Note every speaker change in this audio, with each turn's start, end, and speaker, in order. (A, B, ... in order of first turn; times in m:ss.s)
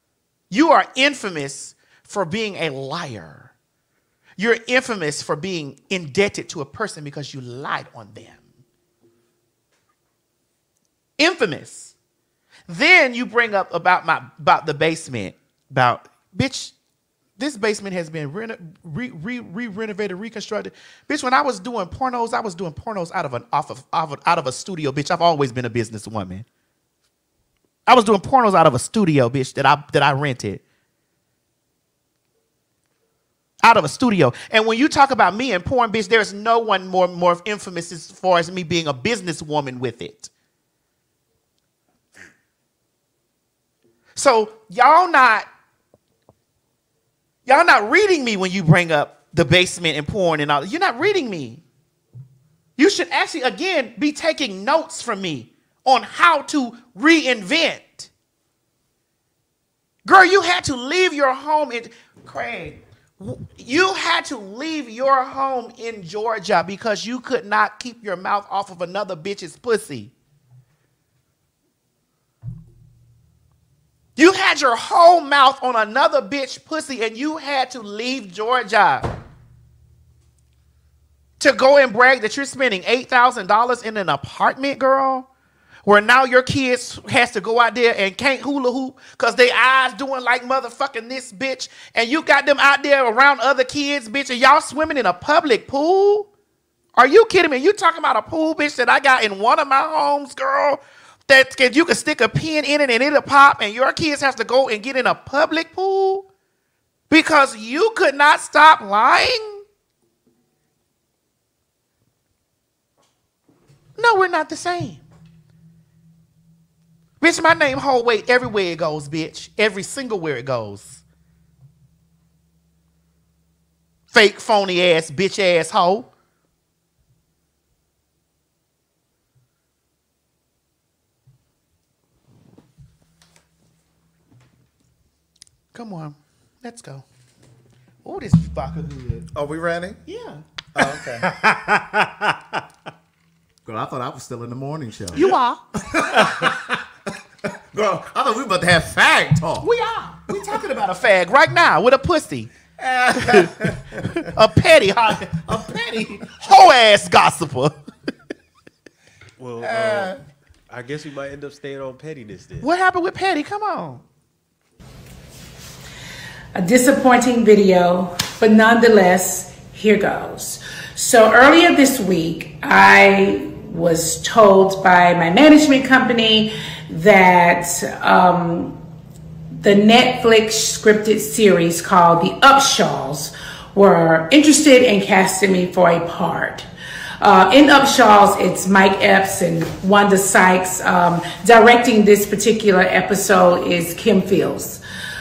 0:00.5-0:03.5 A
0:04.4-0:08.5 A
0:11.2-0:11.9 A
0:12.7-0:16.7 A
0:17.4-0:26.5 A
0:27.9-0:30.6 A
0:33.6-0:40.3 A
0:44.2-0:45.5 A
0:47.5-0:51.6 A
0:52.8-0:58.1 A
1:00.0-1:10.1 A
1:14.2-1:19.1 A
1:21.4-1:25.3 A
1:25.9-1:36.3 A
1:37.0-1:46.3 A
1:47.1-1:49.6 A
1:54.0-1:55.0 A
1:57.2-2:01.0 A
2:04.1-2:06.1 A
2:15.7-2:17.0 A
2:18.0-2:19.3 A
2:19.3-2:20.0 B
2:20.1-2:20.4 A
2:20.8-2:21.3 B
2:21.2-2:22.0 C
2:23.6-2:25.3 B
2:25.1-2:25.7 A
2:25.8-2:26.6 B
2:27.5-2:29.7 B
2:29.6-2:32.5 A
2:32.8-2:34.2 B
2:33.2-2:37.7 A
2:39.4-2:40.2 C
2:39.6-2:40.2 B
2:40.7-2:42.7 C
2:42.6-2:44.0 A
2:46.6-2:58.8 D
2:59.6-3:06.7 D
3:07.2-3:14.8 D